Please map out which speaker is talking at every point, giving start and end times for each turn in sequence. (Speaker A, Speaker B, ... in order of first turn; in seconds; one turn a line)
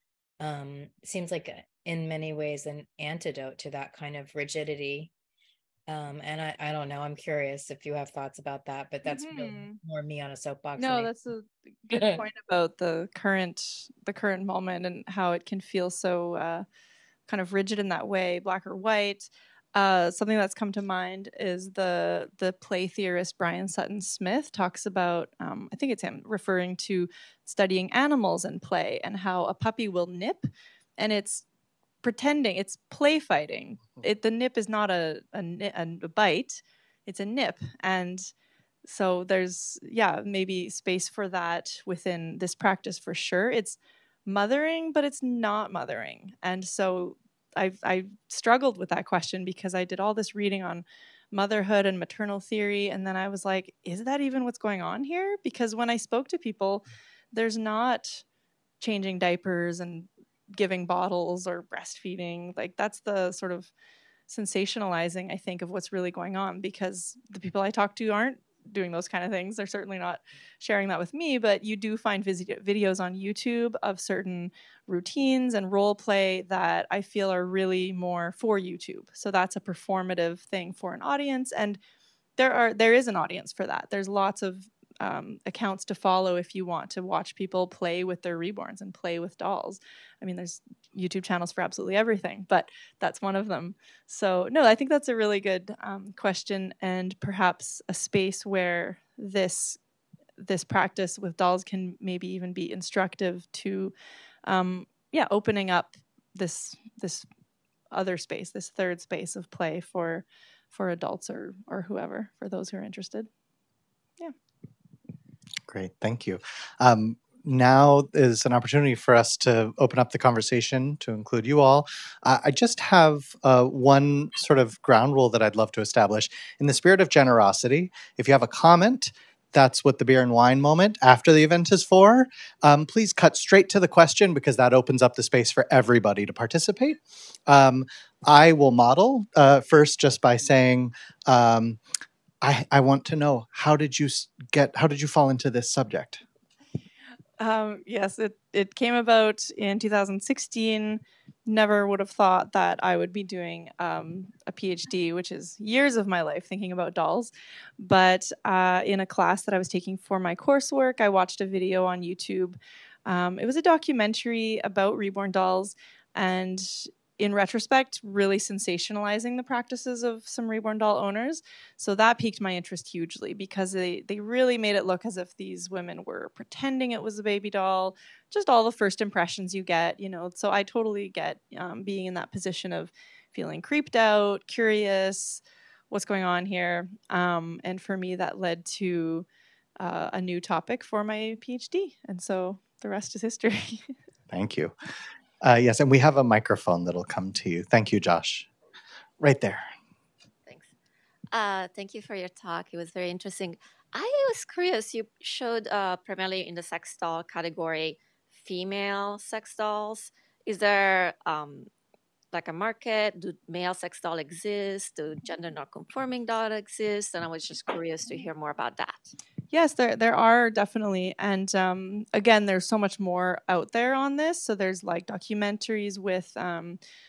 Speaker A: 0.4-5.1
Speaker A: 5.9-11.1
Speaker B: 9.0-9.8
Speaker B: 10.8-16.6
Speaker A: 11.9-12.2
Speaker B: 17.3-30.5
Speaker B: 31.0-31.4
Speaker B: 32.0-38.3
Speaker B: 38.8-58.2
Speaker B: 58.8-63.7
Speaker B: 64.3-81.8
Speaker B: 82.4-99.8
Speaker B: 100.4-103.9
Speaker B: 104.4-107.3
Speaker B: 107.9-113.3
Speaker C: 115.7-141.8
Speaker C: 142.4-146.2
Speaker B: 147.4-189.3
Speaker B: 189.8-193.9
Speaker C: 194.3-194.7
Speaker C: 195.4-198.5
Speaker C: 199.2-199.7
Speaker D: 200.4-200.7
Speaker D: 201.3-211.7
Speaker D: 212.3-219.1
Speaker B: 219.5-226.8